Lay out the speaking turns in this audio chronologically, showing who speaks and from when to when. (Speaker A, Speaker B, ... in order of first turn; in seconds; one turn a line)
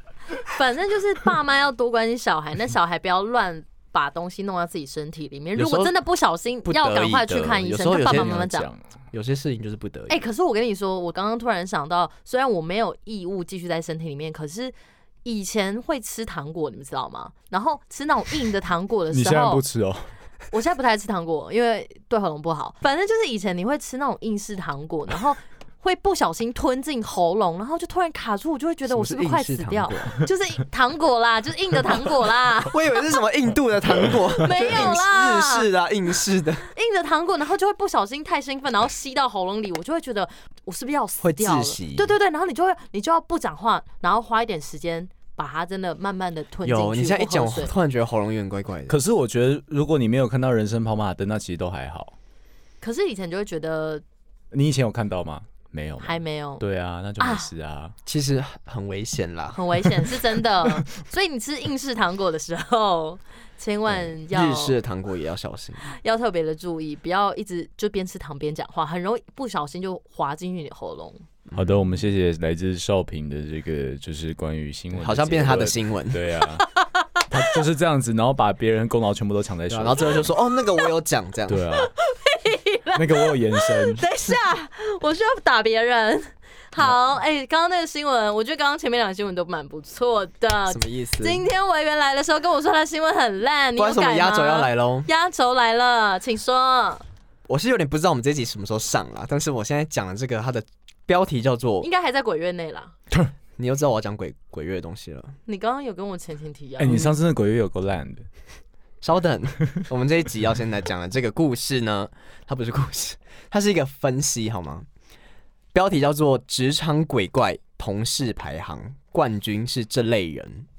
Speaker A: 0.5-8.7
Speaker B: 5.5-5.9
Speaker B: 6.7-8.5
Speaker C: 7.9-8.8
Speaker B: 9.1-10.2
Speaker A: 10.1-19.6
Speaker C: 19.1-20.1
Speaker A: 20.5-32.8
Speaker B: 28.9-30.2
Speaker B: 32.7-36.7
Speaker A: 34.3-35.7
Speaker A: 36.7-47.7
Speaker B: 41.2-42.1
Speaker B: 46.6-49.0
Speaker C: 48.9-52.1
Speaker A: 52.8-54.0
Speaker C: 54.5-57.9
Speaker A: 56.0-56.6
Speaker A: 57.2-57.5
Speaker B: 58.0-59.9
Speaker A: 59.5-64.8
Speaker B: 63.9-65.8
Speaker A: 65.8-71.2
Speaker B: 71.5-71.8
Speaker C: 71.5-76.7
Speaker B: 74.9-76.2
Speaker A: 76.8-77.2
Speaker C: 77.3-80.3
Speaker B: 79.7-81.7
Speaker C: 81.5-81.9
Speaker A: 81.8-97.0
Speaker C: 82.9-84.0
Speaker B: 90.7-91.4
Speaker B: 93.8-95.1
Speaker B: 97.5-101.9
Speaker A: 101.8-102.9
Speaker B: 103.6-105.3
Speaker A: 105.5-107.1
Speaker C: 106.8-108.3
Speaker B: 109.0-114.8
Speaker B: 115.7-120.7